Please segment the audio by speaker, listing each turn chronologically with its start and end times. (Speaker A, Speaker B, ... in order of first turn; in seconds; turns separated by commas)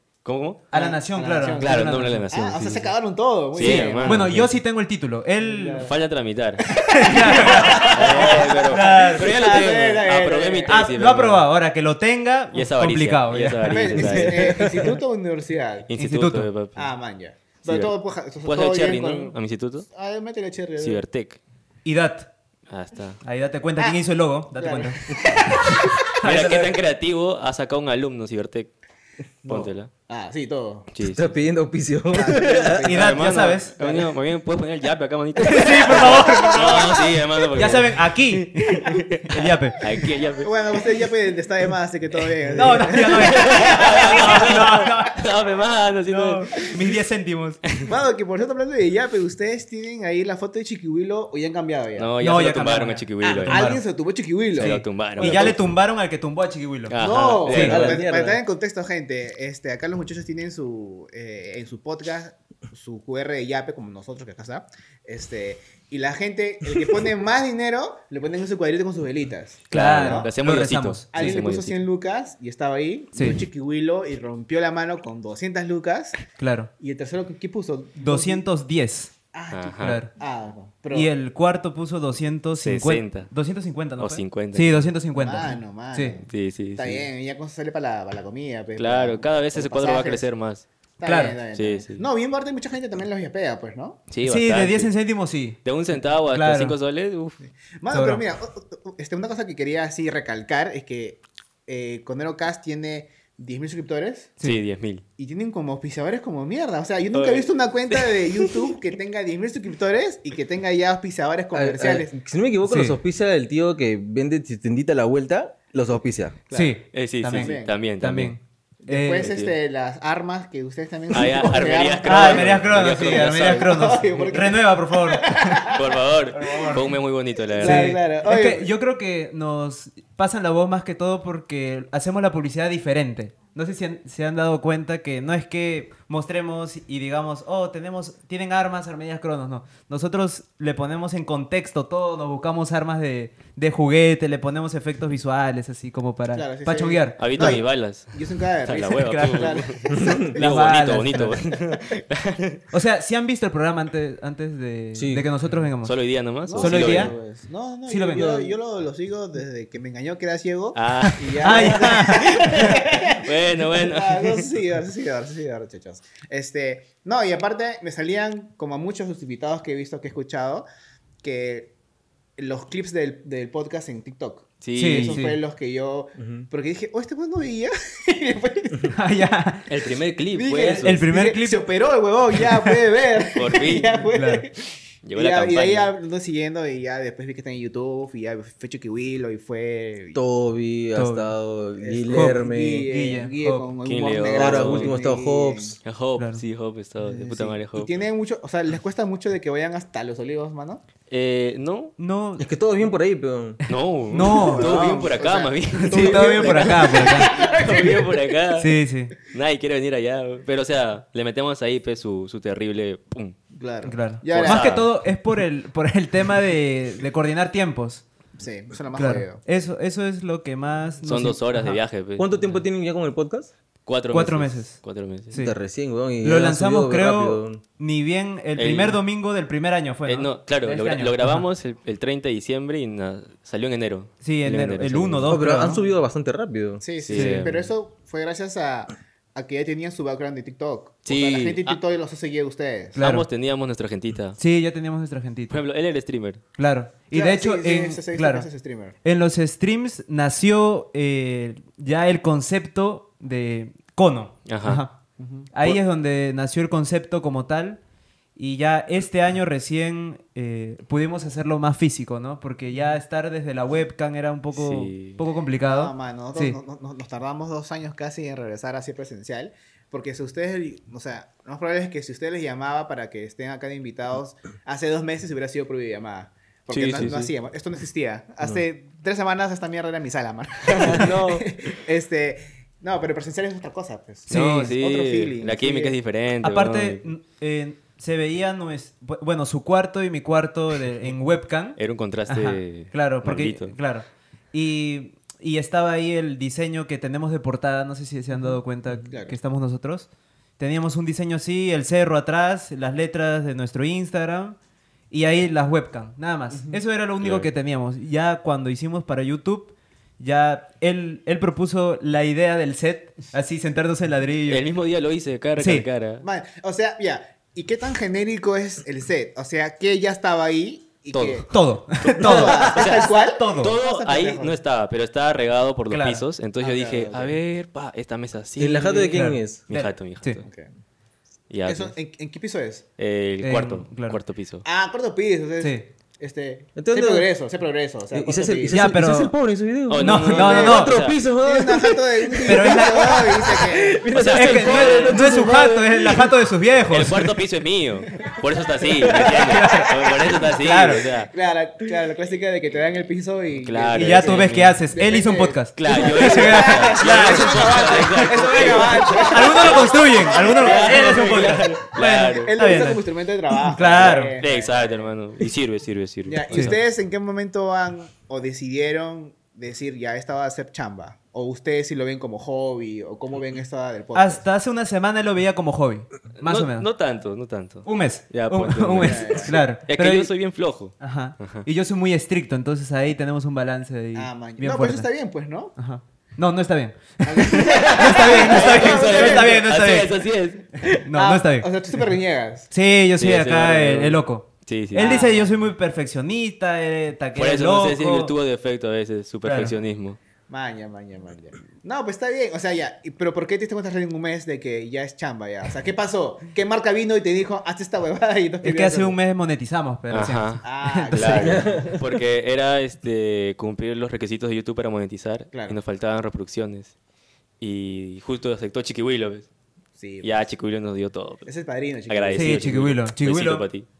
Speaker A: 0.2-0.7, Speaker B: 0.7-2.2, Speaker C: 0.7-4.3, Speaker A: 1.6-2.9, Speaker A: 3.5-4.5, Speaker B: 3.6-5.9, Speaker C: 5.4-5.9, Speaker A: 5.7-11.4, Speaker C: 6.6-10.7, Speaker B: 6.9-9.8, Speaker B: 10.7-14.2, Speaker A: 12.5-14.9, Speaker C: 13.7-15.9, Speaker D: 14.0-14.9, Speaker A: 15.8-16.9, Speaker B: 16.0-16.5, Speaker C: 16.7-19.4, Speaker A: 17.6-17.9, Speaker A: 18.4-19.9, Speaker C: 19.9-21.0, Speaker A: 20.8-21.4, Speaker B: 21.8-22.3, Speaker A: 22.7-23.2, Speaker B: 23.2-25.0, Speaker C: 24.5-26.2, Speaker A: 26.0-28.7, Speaker B: 26.1-26.8, Speaker C: 29.4-30.9, Speaker A: 29.4-29.9, Speaker A: 30.9-31.3, Speaker D: 31.0-32.8, Speaker C: 32.1-34.1, Speaker A: 32.8-40.5, Speaker B: 32.8-33.7, Speaker B: 35.4-37.0, Speaker C: 35.5-37.2, Speaker B: 37.5-39.8, Speaker C: 39.9-44.7, Speaker B: 42.5-45.2, Speaker A: 42.8-46.7, Speaker B: 46.1-47.6, Speaker C: 47.8-52.1, Speaker A: 52.0-53.7, Speaker B: 52.2-53.8, Speaker C: 53.2-55.5, Speaker A: 54.5-55.6, Speaker B: 54.5-57.0, Speaker A: 56.9-58.0, Speaker C: 56.9-70.3, Speaker B: 57.5-57.9, Speaker D: 57.5-58.4, Speaker B: 69.7-71.3, Speaker A: 69.7-71.8, Speaker C: 71.1-76.2, Speaker B: 73.1-73.4, Speaker B: 76.4-76.7, Speaker C: 76.8-78.5, Speaker B: 78.0-79.1, Speaker C: 79.3-81.1, Speaker A: 79.5-80.0, Speaker B: 79.8-80.1, Speaker B: 80.9-86.2, Speaker A: 82.6-83.3, Speaker A: 84.0-84.9, Speaker C: 85.1-90.2, Speaker A: 86.2-87.1, Speaker A: 88.8-90.7, Speaker C: 91.0-94.0, Speaker B: 91.0-91.4, Speaker A: 91.5-92.0, Speaker A: 94.1-94.9, Speaker B: 94.2-95.6, Speaker A: 95.6-97.4, Speaker B: 96.3-96.7, Speaker C: 97.7-104.3, Speaker B: 97.9-98.2, Speaker A: 104.4-105.0, Speaker C: 105.2-112.1, Speaker A: 107.1-108.8, Speaker D: 111.5-116.4, Speaker B: 112.6-113.0, Speaker C: 116.5-116.8, Speaker B: 116.5-119.3, Speaker A: 116.9-118.3, Speaker C: 117.3-117.7, Speaker C: 118.8-126.8, Speaker A: 119.2-119.5, Speaker A: 121.1-124.0, Speaker B: 122.0-125.7, Speaker A: 125.7-128.0, Speaker B: 126.3-126.8, Speaker C: 127.5-128.7, Speaker B: 127.6-147.2, Speaker C: 146.3-150.8, Speaker A: 147.2-152.6, Speaker B: 149.0-149.6, Speaker D: 150.0-150.2, Speaker B: 150.3-151.4, Speaker B: 152.7-156.0, Speaker D: 154.9-155.3, Speaker A: 155.8-157.1, Speaker C: 156.4-170.6, Speaker B: 156.5-157.1, Speaker B: 157.9-158.3, Speaker D: 158.1-158.5, Speaker A: 160.7-164.5, Speaker B: 161.4-162.3, Speaker C: 171.2-171.7, Speaker C: 172.4-178.9, Speaker A: 174.6-175.2, Speaker B: 174.7-175.4, Speaker D: 176.2-176.4, Speaker B: 178.9-179.7, Speaker A: 179.7-181.0, Speaker C: 180.3-190.2, Speaker B: 180.6-181.7, Speaker A: 183.3-184.0, Speaker B: 184.1-184.4, Speaker A: 185.0-185.9, Speaker D: 190.1-192.9, Speaker B: 190.9-191.3, Speaker C: 191.8-195.8, Speaker B: 192.1-193.7, Speaker A: 193.8-194.9, Speaker D: 194.3-195.8, Speaker A: 195.8-197.9, Speaker C: 197.0-200.8, Speaker A: 201.1-201.9, Speaker B: 202.0-202.5, Speaker D: 202.4-203.6, Speaker A: 203.7-208.7, Speaker B: 204.1-204.8, Speaker C: 204.3-208.3, Speaker B: 205.7-207.3, Speaker B: 208.6-209.1, Speaker A: 209.2-213.4, Speaker C: 213.5-214.8, Speaker B: 213.8-218.0, Speaker A: 214.3-214.9, Speaker C: 218.4-219.4, Speaker B: 218.9-221.8, Speaker A: 221.0-222.5, Speaker D: 222.2-223.5, Speaker A: 223.8-225.4, Speaker B: 224.1-224.8, Speaker B: 225.3-225.6, Speaker D: 225.3-227.6, Speaker B: 226.2-231.4, Speaker A: 228.6-229.0, Speaker A: 230.1-235.3, Speaker B: 234.2-235.8, Speaker D: 235.3-236.8, Speaker C: 236.8-243.0, Speaker A: 237.0-237.7, Speaker B: 237.1-237.4, Speaker A: 241.1-241.8, Speaker B: 242.9-243.3, Speaker A: 243.0-244.4, Speaker B: 244.4-245.5, Speaker A: 245.5-246.4, Speaker B: 246.6-248.5, Speaker C: 247.1-248.9, Speaker B: 249.0-255.0, Speaker A: 254.4-254.8, Speaker C: 255.2-255.5, Speaker B: 255.5-257.8, Speaker B: 258.4-266.6, Speaker A: 264.6-265.2, Speaker C: 265.6-286.0, Speaker A: 276.7-277.3, Speaker A: 280.7-281.5, Speaker B: 284.3-284.7, Speaker A: 284.3-287.1, Speaker B: 286.4-304.6, Speaker A: 291.8-293.8, Speaker C: 298.4-299.4, Speaker B: 305.1-314.6, Speaker C: 306.5-306.8, Speaker A: 307.2-307.5, Speaker A: 314.5-316.2, Speaker B: 315.6-315.9, Speaker C: 316.2-324.6, Speaker A: 321.1-321.5, Speaker B: 321.5-323.8, Speaker A: 322.0-330.4, Speaker B: 325.9-326.2, Speaker C: 326.6-327.4, Speaker D: 328.6-329.6, Speaker B: 328.9-330.4, Speaker C: 330.4-330.7, Speaker A: 331.5-331.9, Speaker C: 331.6-332.9, Speaker A: 333.0-334.6, Speaker B: 333.4-334.2, Speaker C: 334.6-338.9, Speaker B: 335.6-335.9, Speaker D: 336.8-337.3, Speaker D: 338.1-346.4, Speaker B: 338.7-339.3, Speaker A: 339.9-341.2, Speaker B: 340.0-341.0, Speaker C: 340.3-344.0, Speaker B: 342.4-343.1, Speaker A: 344.1-345.2, Speaker B: 344.3-347.3, Speaker A: 346.9-351.3, Speaker D: 349.1-349.3, Speaker C: 349.4-365.1, Speaker B: 349.4-351.1, Speaker A: 353.6-354.8, Speaker B: 353.9-363.0, Speaker A: 355.8-362.5, Speaker B: 363.7-364.3, Speaker A: 363.9-366.8, Speaker C: 366.2-374.4, Speaker B: 374.1-376.9, Speaker A: 376.4-381.6, Speaker B: 377.8-380.3, Speaker C: 379.0-379.5, Speaker B: 381.0-385.1, Speaker C: 384.1-385.7, Speaker B: 385.8-390.2, Speaker C: 387.2-389.6, Speaker A: 387.6-390.7, Speaker B: 390.8-391.7, Speaker C: 391.0-392.7, Speaker B: 392.7-398.3, Speaker A: 393.2-395.3, Speaker C: 394.9-395.5, Speaker A: 397.4-400.2, Speaker B: 399.4-399.7, Speaker C: 400.5-409.2, Speaker B: 408.6-411.4, Speaker A: 410.1-416.9, Speaker C: 410.6-411.9, Speaker D: 411.3-411.9, Speaker C: 415.5-415.8, Speaker A: 417.6-419.5, Speaker C: 420.0-420.4, Speaker A: 420.2-421.5, Speaker C: 421.4-422.6, Speaker A: 422.1-423.9, Speaker B: 422.3-423.6